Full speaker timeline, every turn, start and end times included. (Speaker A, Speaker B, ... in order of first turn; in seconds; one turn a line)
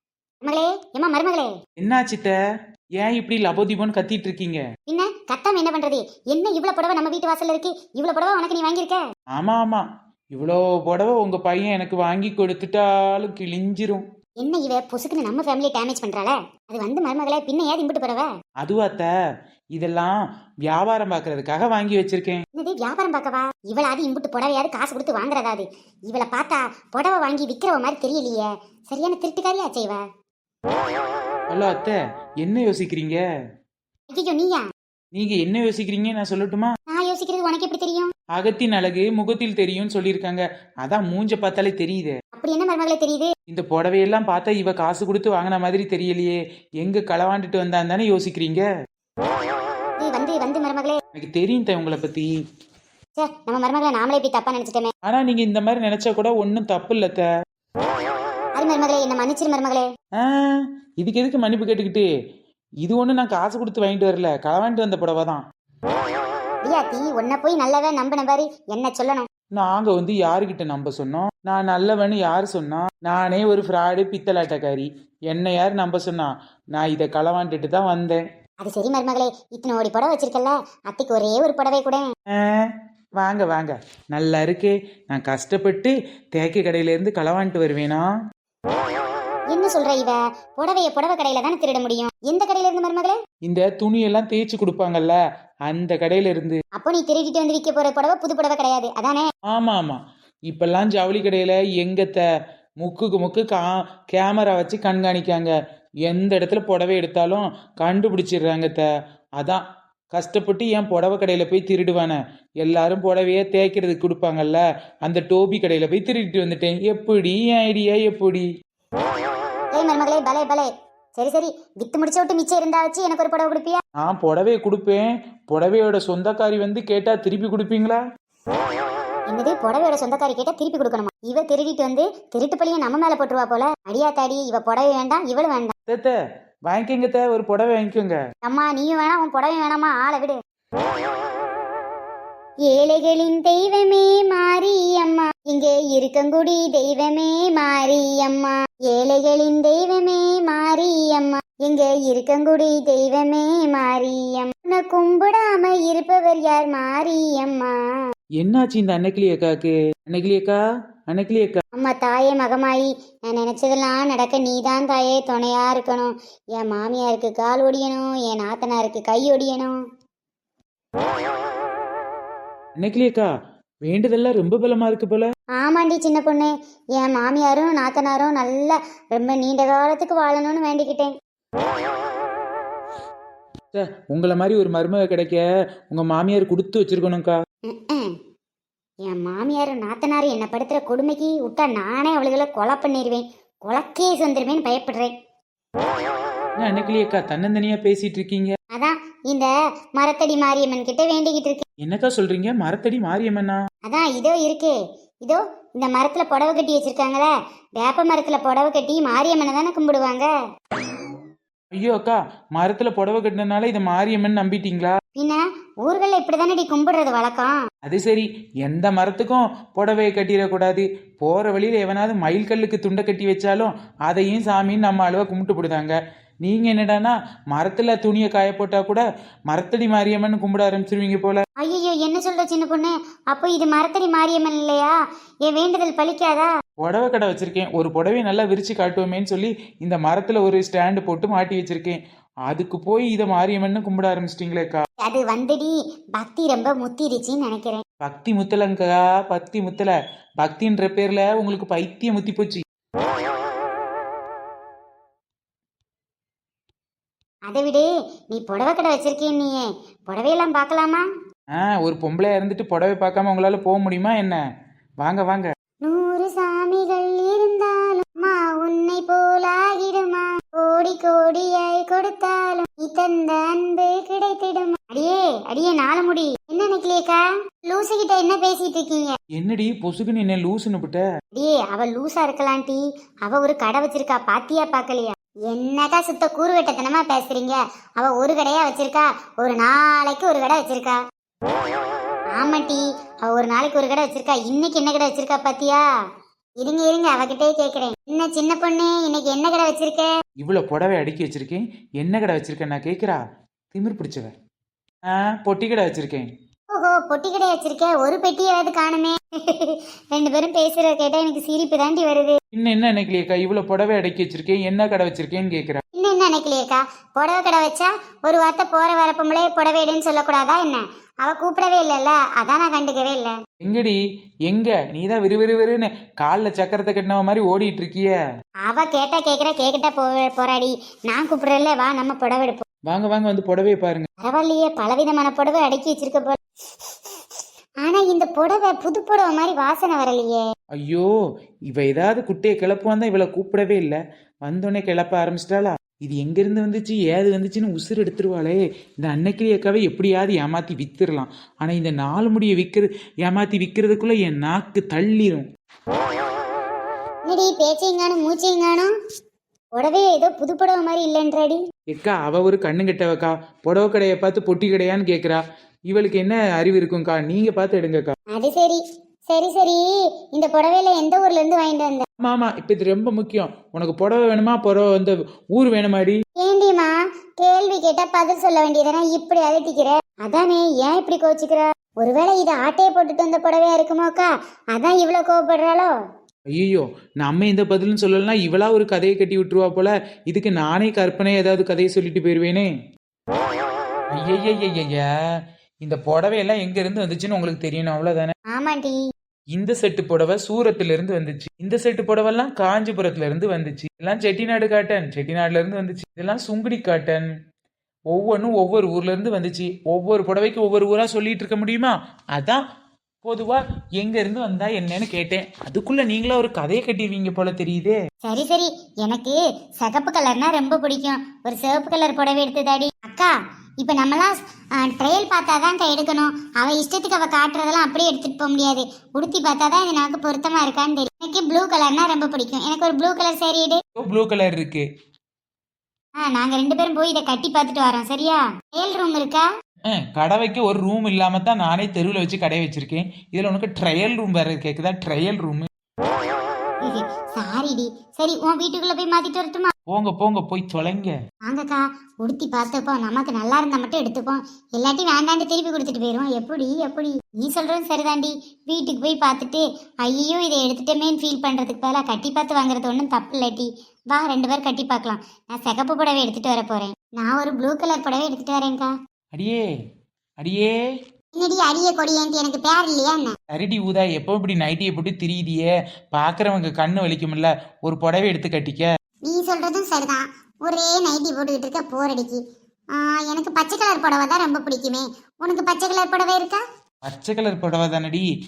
Speaker A: 0.4-1.5
Speaker B: 1.8-2.3
Speaker B: 3.0-4.6
Speaker A: 4.9-9.0
Speaker B: 9.3-14.1
Speaker A: 14.4-18.3
Speaker B: 18.6-19.1
Speaker B: 19.8-22.4
Speaker A: 22.5-30.0
Speaker B: 31.5-33.2
Speaker A: 34.1-34.7
Speaker B: 35.1-36.7
Speaker A: 36.9-38.1
Speaker B: 38.3-42.1
Speaker A: 42.4-43.3
Speaker B: 43.5-48.6
Speaker A: 50.0-51.0
Speaker B: 51.1-52.3
Speaker A: 53.2-54.9
Speaker B: 55.1-57.3
Speaker A: 58.6-59.9
Speaker B: 60.2-62.1
Speaker B: 62.8-65.4
Speaker A: 66.6-69.3
Speaker B: 69.6-78.2
Speaker A: 78.6-82.1
Speaker B: 82.3-88.0
Speaker A: 89.5-93.2
Speaker B: 93.5-96.6
Speaker A: 96.8-99.2
Speaker B: 99.5-102.2
Speaker B: 102.8-105.5
Speaker B: 106.1-108.9
Speaker B: 109.4-118.5
Speaker A: 119.7-123.8
Speaker B: 124.0-128.0
Speaker A: 129.3-135.7
Speaker B: 135.9-136.2
Speaker B: 136.7-138.2
Speaker A: 138.4-140.4
Speaker A: 142.7-157.8
Speaker B: 158.4-160.6
Speaker B: 161.1-161.6
Speaker A: 161.8-169.8
Speaker B: 172.8-173.3
Speaker B: 173.8-175.3
Speaker A: 175.6-181.1
Speaker B: 183.7-187.4
Speaker A: 187.7-188.2
Speaker A: 189.1-195.1
Speaker B: 196.6-198.6
Speaker A: 198.7-201.6
Speaker B: 201.8-203.6
Speaker A: 203.9-210.3
Speaker B: 211.8-215.0
Speaker A: 215.2-217.6
Speaker B: 217.9-231.4
Speaker A: 231.6-234.9
Speaker A: 235.5-236.5
Speaker B: 236.8-244.8
Speaker A: 245.0-247.8
Speaker B: 248.0-252.6
Speaker A: 257.5-261.1
Speaker B: 261.6-264.4
Speaker B: 265.0-265.5
Speaker A: 265.8-279.2
Speaker B: 279.4-281.0
Speaker A: 281.4-291.0
Speaker A: 292.4-295.9
Speaker A: 296.6-300.1
Speaker B: 300.4-304.3
Speaker B: 305.1-306.3
Speaker A: 306.7-312.4
Speaker B: 312.5-315.8
Speaker A: 316.0-323.4
Speaker B: 323.6-328.2
Speaker A: 328.6-332.6
Speaker B: 332.9-334.1
Speaker A: 334.2-336.4
Speaker A: 337.8-340.4
Speaker B: 340.8-341.1
Speaker B: 341.7-355.5
Speaker A: 357.3-358.9
Speaker A: 359.8-361.6
Speaker B: 361.9-368.2
Speaker A: 368.3-372.1
Speaker B: 372.2-376.2
Speaker A: 376.4-385.9
Speaker B: 386.5-392.7
Speaker B: 394.1-395.1
Speaker B: 395.8-398.3
Speaker A: 398.5-399.0
Speaker B: 399.5-407.3
Speaker B: 408.1-412.6
Speaker B: 413.2-418.0
Speaker A: 418.2-433.8
Speaker B: 434.0-434.9
Speaker A: 436.2-439.5
Speaker B: 439.9-445.7
Speaker A: 446.8-449.7
Speaker B: 449.9-451.1
Speaker A: 451.5-468.9
Speaker B: 469.3-469.6
Speaker B: 470.4-470.8
Speaker A: 471.3-473.3
Speaker B: 473.5-478.9
Speaker A: 479.2-482.4
Speaker A: 482.9-486.6
Speaker B: 487.1-488.3